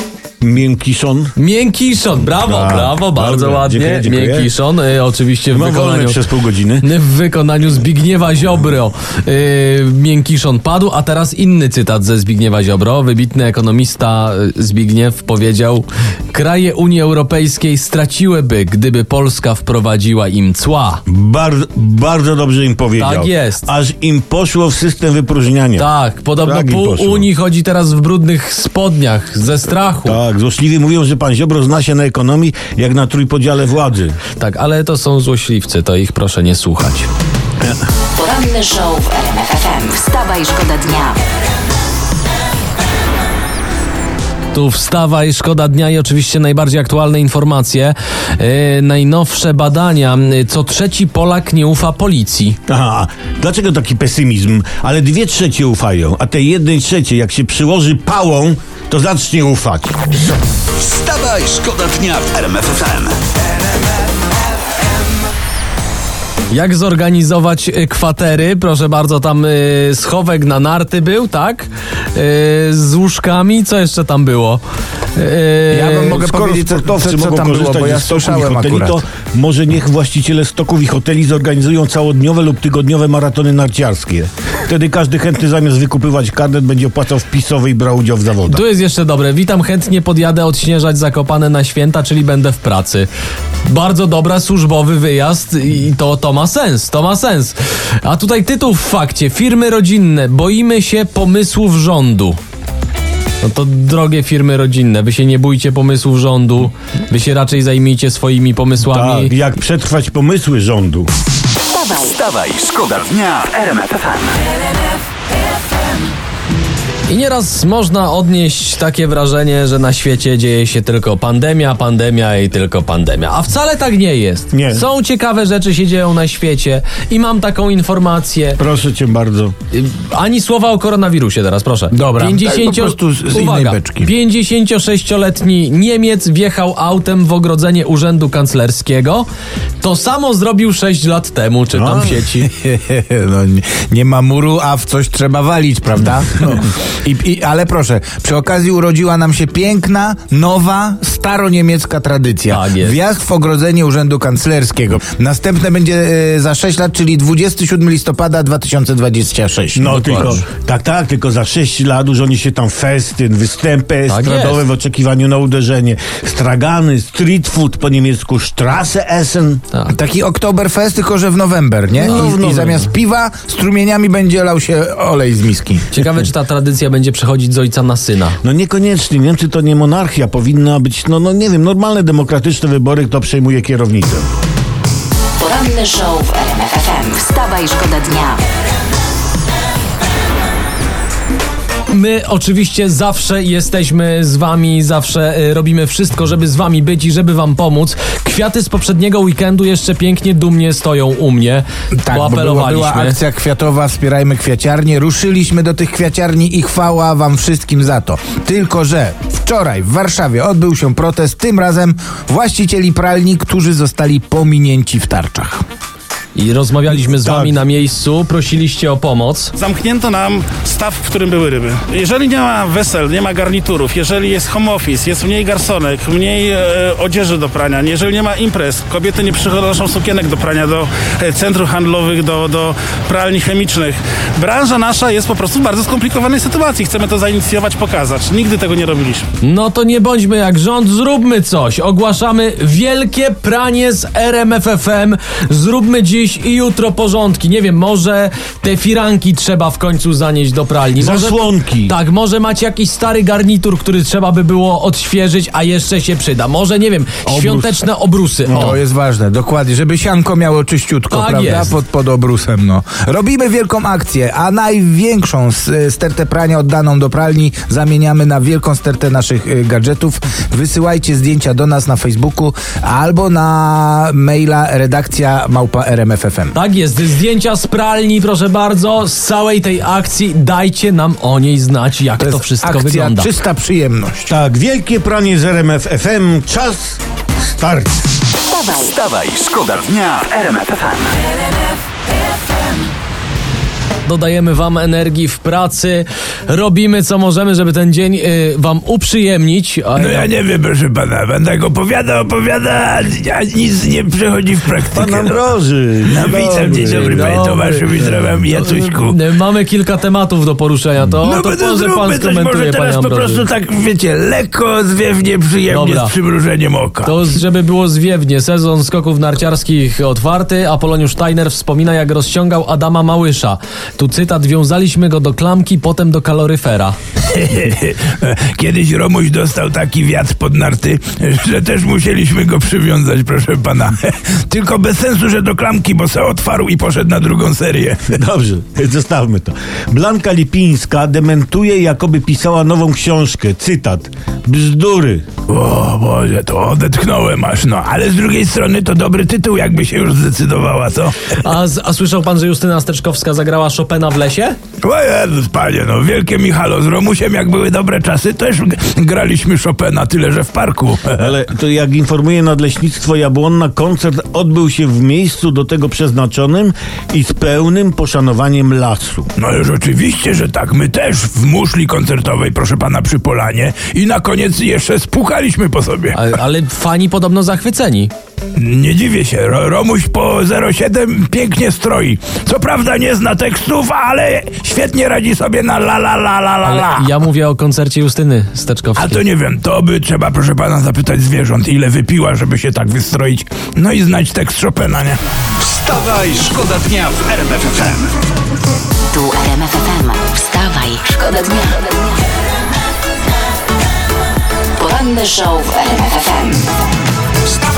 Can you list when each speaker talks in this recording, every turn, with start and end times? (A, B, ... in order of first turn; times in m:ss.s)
0:00.4-0:01.3 A
0:01.4-0:06.2 B
0:02.4-0:04.5 A
0:05.5-0:06.9 A
0:06.8-0:21.0 B
0:21.1-0:25.9 A
0:23.0-0:23.7 B
0:25.8-0:30.2 B
0:26.4-0:27.3 A
0:30.0-0:34.2 A
0:34.4-0:37.1 B
0:38.1-0:41.2 C
0:44.5-0:52.6 B
0:52.7-1:00.2 A
1:00.8-1:03.1 D
1:06.5-1:14.6 B
1:15.2-1:16.2 B
1:15.7-1:19.0 E
1:16.2-1:28.6 A
1:28.4-1:33.1 B
1:33.6-1:42.4 B
1:43.4-1:49.3 B
1:48.9-1:51.1 A
1:51.7-1:52.1 C
1:52.0-1:54.4 D
1:57.1-2:08.6 B
2:04.5-2:04.8 A
2:08.6-2:09.5 A
2:09.7-2:19.3 B
2:11.9-2:14.1 E
2:19.8-2:22.5 B
2:21.8-2:22.1 A
2:22.4-2:40.4 E
2:32.5-2:33.0 B
2:39.8-2:49.6 A
2:39.9-2:40.4 B
2:44.1-2:44.7 B
2:49.9-2:56.0 E
2:52.0-2:52.8 B
2:52.0-2:52.9 A
2:55.9-2:58.4 B
2:58.4-3:04.3 A
3:05.4-3:08.4 C
3:11.9-3:23.2 B
3:22.0-3:35.6 E
3:36.4-3:39.5 B
3:37.2-3:37.6 A
3:39.6-3:59.3 F
3:59.4-4:18.8 B
4:11.0-4:11.9 A
4:17.2-4:17.8 A
4:18.5-4:18.8 A
4:18.6-4:36.6 E
4:21.1-4:21.8 B
4:36.5-4:43.3 B
4:42.2-4:44.4 E
4:44.3-4:47.0 A
4:47.6-4:48.0 A
4:48.5-4:49.0 C
4:48.8-4:51.1 D
4:54.0-5:00.3 B
5:00.0-5:05.5 G
5:04.9-5:07.4 A
5:06.1-5:09.2 G
5:06.8-5:13.4 B
5:11.2-5:17.2 G
5:15.7-5:16.2 B
5:17.0-5:27.0 B
5:27.3-5:38.1 G
5:38.1-5:45.3 A
5:45.5-5:51.2 G
5:51.3-5:54.6 B
5:54.8-6:01.3 G
6:01.2-6:09.3 A
6:09.4-6:16.2 G
6:16.1-6:18.1 B
6:18.6-6:27.1 G
6:26.6-6:29.2 B
6:29.0-6:35.2 G
6:35.6-6:38.1 D
6:39.1-6:41.9 C
6:44.8-6:46.6 C